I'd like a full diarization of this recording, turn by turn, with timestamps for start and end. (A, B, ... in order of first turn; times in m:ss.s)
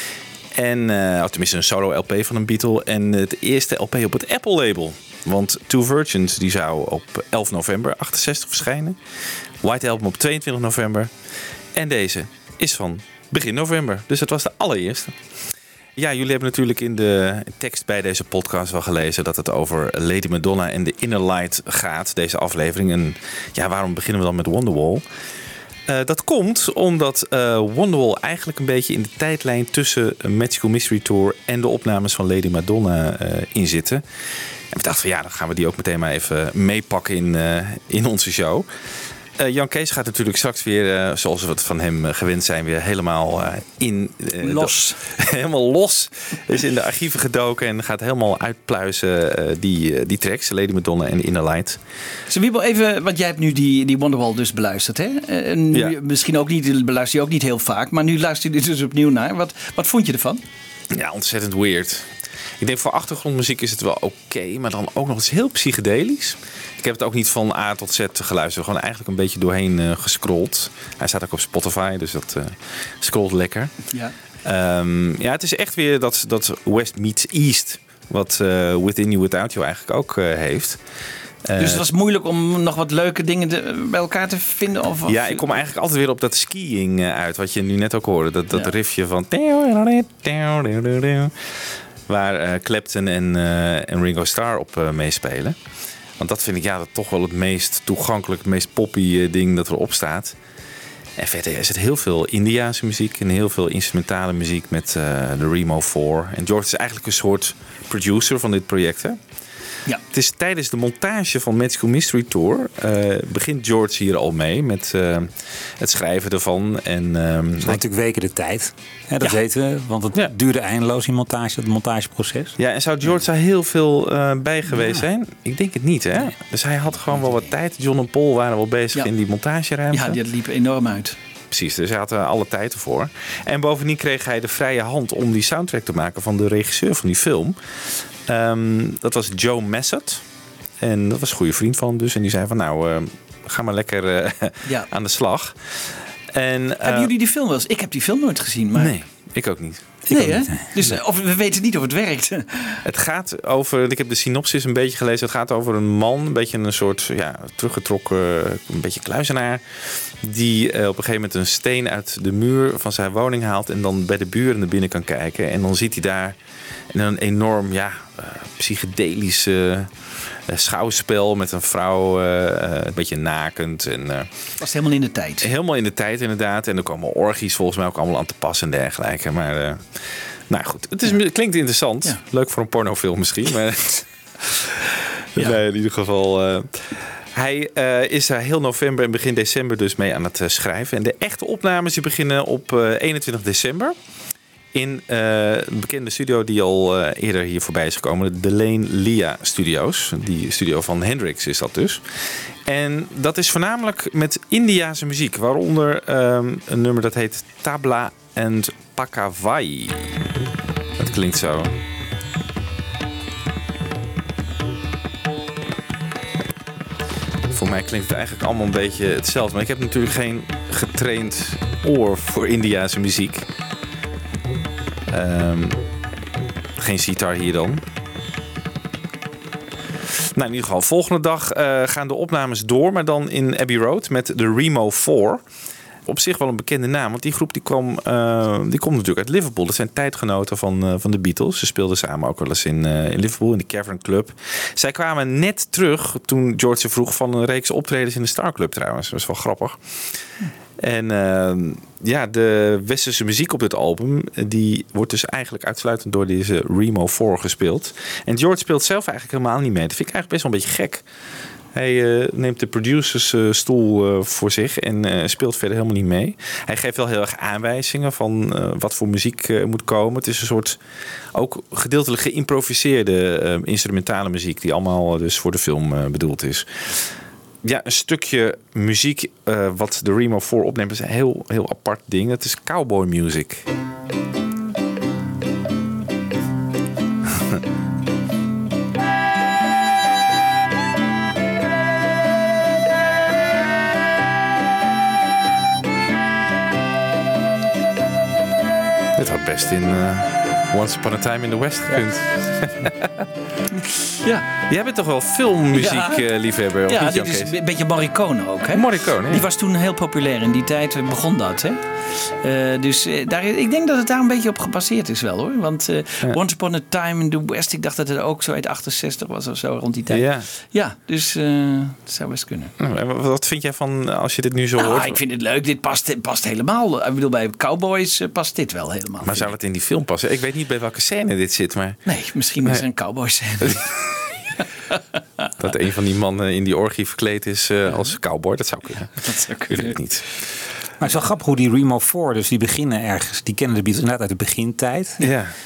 0:00.6-0:09.0 A
0:09.6-0:11.1 A
0:11.8-0:15.1 A
0:16.0-0:25.0 A
0:25.9-0:34.0 A
0:34.7-0:38.7 A
0:39.4-0:51.8 A
0:44.4-0:45.0 B
0:52.3-1:00.4 B
1:00.9-1:02.1 A
1:02.6-1:13.8 A
1:14.5-1:20.8 A
1:21.4-1:21.8 A
1:21.6-1:25.5 B
1:25.1-1:31.5 A
1:32.1-1:35.6 A
1:36.2-1:40.4 A
1:41.2-1:49.2 A
1:50.1-1:57.8 A
1:57.6-2:02.5 C
2:02.6-2:10.2 A
2:09.9-2:11.2 B
2:11.5-2:17.6 A
2:18.3-2:20.2 A
2:20.8-2:27.1 A
2:26.8-2:28.9 B
2:28.8-2:29.8 A
2:30.1-2:30.6 C
2:30.1-2:32.8 B
2:32.8-2:39.6 A
2:40.2-2:46.4 A
2:46.9-2:49.9 A
2:50.5-2:54.3 A
2:54.6-2:55.5 B
2:55.4-3:04.0 A
3:05.4-3:13.9 A
3:14.7-3:22.0 A
3:22.7-3:30.0 A
3:31.0-3:31.7 A
3:37.5-3:43.5 A
3:45.1-3:45.8 A
3:46.8-3:47.8 A
3:50.4-3:55.4 A
3:56.1-4:09.8 A
4:10.8-4:21.0 A
4:21.8-4:30.8 A
4:31.3-4:37.0 A
4:37.6-4:43.6 A
4:59.2-5:03.1 A
5:04.1-5:04.5 B
5:04.7-5:07.5 A
5:05.8-5:06.2 B
5:06.9-5:11.8 B
5:08.7-5:09.4 A
5:12.4-5:22.7 B
5:20.1-5:20.5 A
5:22.8-5:25.2 A
5:24.8-5:29.5 B
5:29.2-5:32.0 A
5:32.1-5:33.9 B
5:34.9-5:35.5 B
5:35.6-5:40.2 A
5:39.2-5:40.0 B
5:41.0-5:45.3 C
5:45.2-5:45.5 A